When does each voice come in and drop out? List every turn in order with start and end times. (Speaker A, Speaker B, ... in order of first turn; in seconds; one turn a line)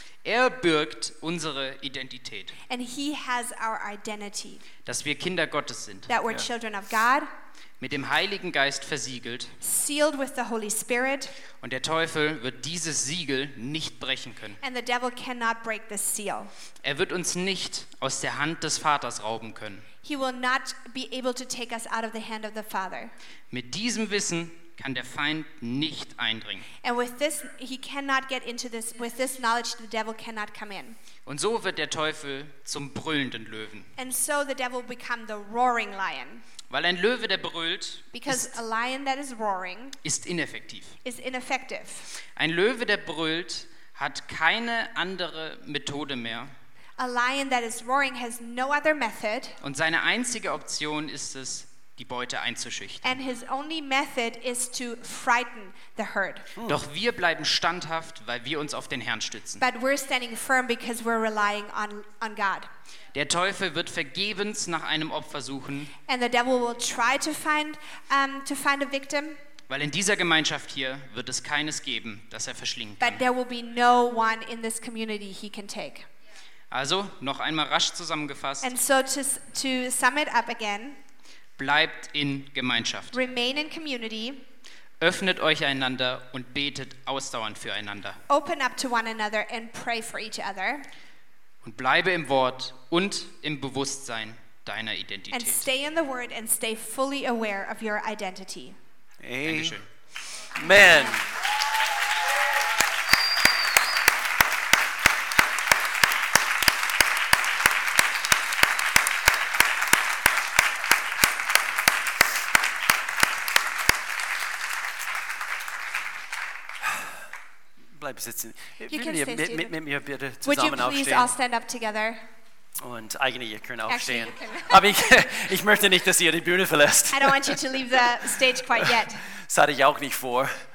Speaker A: 0.2-2.6
Speaker B: 2.7-4.7
Speaker A: 4.8-6.1
Speaker B: 6.1-7.3
Speaker A: 7.8-9.6
Speaker B: 9.6-11.3
Speaker A: 11.6-14.6
Speaker B: 14.6-16.5
Speaker A: 16.8-19.9
Speaker B: 20.0-23.1
Speaker A: 23.5-26.7
Speaker B: 26.8-31.0
Speaker A: 31.3-33.9
Speaker B: 34.0-36.5
Speaker A: 36.7-38.5
Speaker B: 38.1-40.0
Speaker A: 40.0-41.0
Speaker B: 41.0-42.1
Speaker A: 42.4-46.5
Speaker B: 47.0-49.6
Speaker A: 49.6-53.2
Speaker B: 53.0-56.5
Speaker A: 56.6-59.6
Speaker B: 59.6-62.7
Speaker A: 63.1-65.9
Speaker B: 66.1-69.4
Speaker A: 69.7-73.2
Speaker B: 73.0-76.1
Speaker A: 76.7-78.7
Speaker B: 78.6-81.0
Speaker A: 81.6-83.2
Speaker B: 83.1-84.5
Speaker A: 85.0-88.2
Speaker B: 88.3-90.9
Speaker A: 91.6-95.7
Speaker B: 95.3-98.8
Speaker C: 99.2-99.8
Speaker A: 99.5-99.9
Speaker C: 100.5-101.3
Speaker B: 100.6-101.2
Speaker C: 118.0-121.3
Speaker B: 118.9-119.8
Speaker B: 120.4-122.2
Speaker C: 122.8-128.1
Speaker B: 123.9-125.0
Speaker B: 127.1-129.3
Speaker C: 128.8-130.6